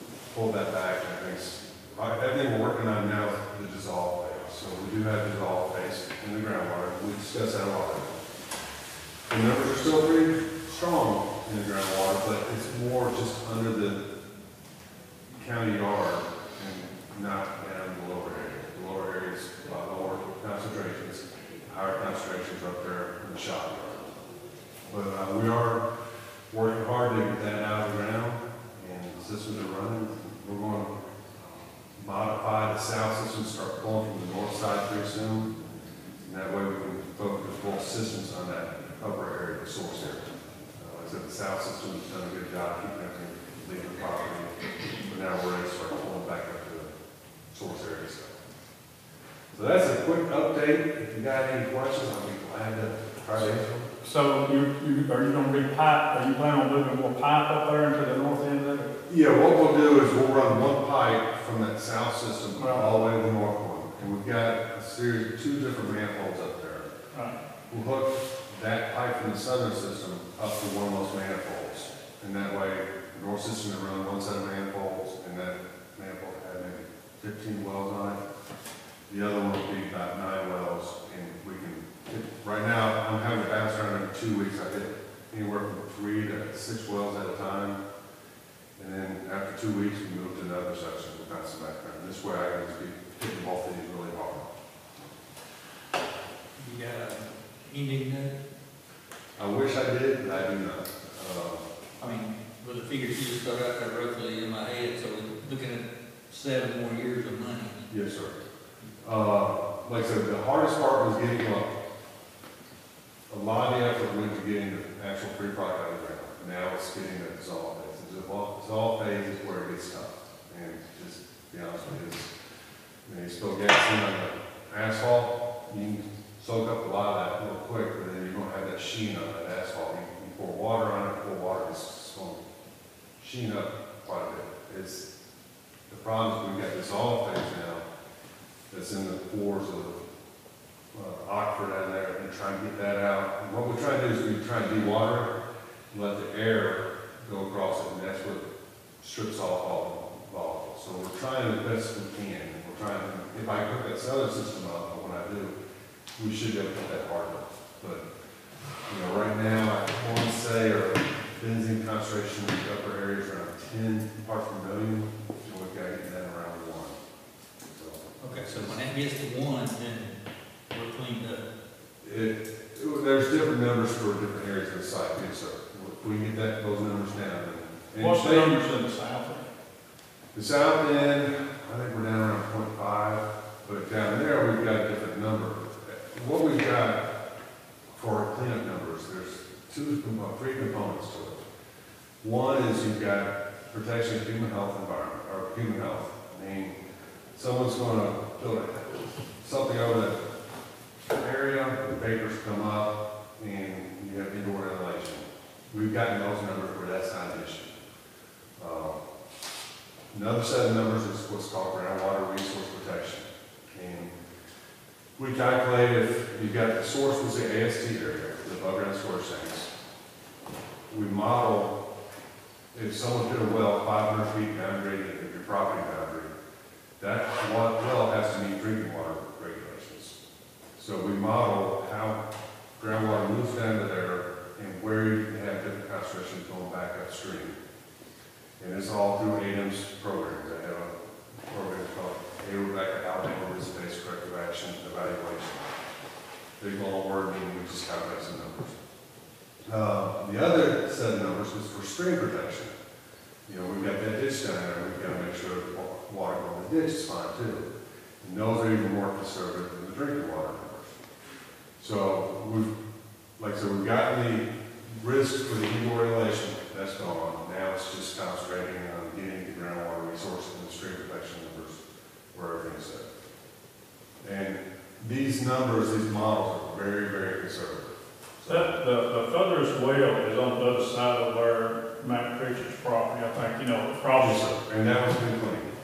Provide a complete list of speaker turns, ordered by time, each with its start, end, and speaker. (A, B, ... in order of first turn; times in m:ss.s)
0:00.3-0:08.1 A
0:09.3-0:14.0 A
0:15.3-0:24.2 A
0:24.8-0:25.8 A
0:26.5-0:30.9 A
0:32.0-0:35.6 A
0:36.2-0:46.9 A
0:47.5-0:48.3 A
0:49.5-0:53.9 A
0:54.0-0:58.9 B
0:59.1-1:06.9 A
1:02.6-1:03.0 B
1:07.1-1:07.4 B
1:07.7-1:18.2 A
1:19.1-1:27.8 A
1:28.8-1:34.5 A
1:36.6-1:38.4 C
1:39.4-1:41.6 A
1:42.0-1:47.8 C
1:47.9-1:48.4 A
1:49.0-1:51.7 A
1:53.3-2:02.3 A
2:03.0-2:12.4 A
2:13.2-2:15.0 A
2:15.9-2:17.8 A
2:18.7-2:20.0 A
2:20.9-2:25.3 A
2:25.9-2:28.4 A
2:29.0-2:35.5 A
2:36.2-2:38.0 A
2:38.8-2:47.0 A
2:47.6-2:48.7 A
2:48.2-2:50.2 C
2:50.7-2:51.4 C
2:52.0-2:58.6 A
2:58.0-2:59.5 B
3:00.3-3:07.0 A
3:07.9-3:11.4 A
3:12.2-3:16.8 A
3:17.3-3:20.2 A
3:21.1-3:27.8 A
3:28.6-3:29.0 A
3:30.1-3:34.1 A
3:35.2-3:39.7 A
3:40.9-3:41.7 A
3:42.7-3:46.3 A
3:47.0-3:50.2 A
3:50.8-3:52.2 A
3:52.8-3:57.6 A
3:58.6-4:00.9 A
4:01.5-4:05.8 A
4:06.6-4:08.8 A
4:09.6-4:12.7 A
4:13.5-4:17.7 A
4:18.2-4:20.9 A
4:21.8-4:22.7 A
4:23.4-4:31.8 A
4:32.3-4:33.1 A
4:34.2-4:38.8 A
4:38.5-4:44.6 B
4:44.1-4:45.7 A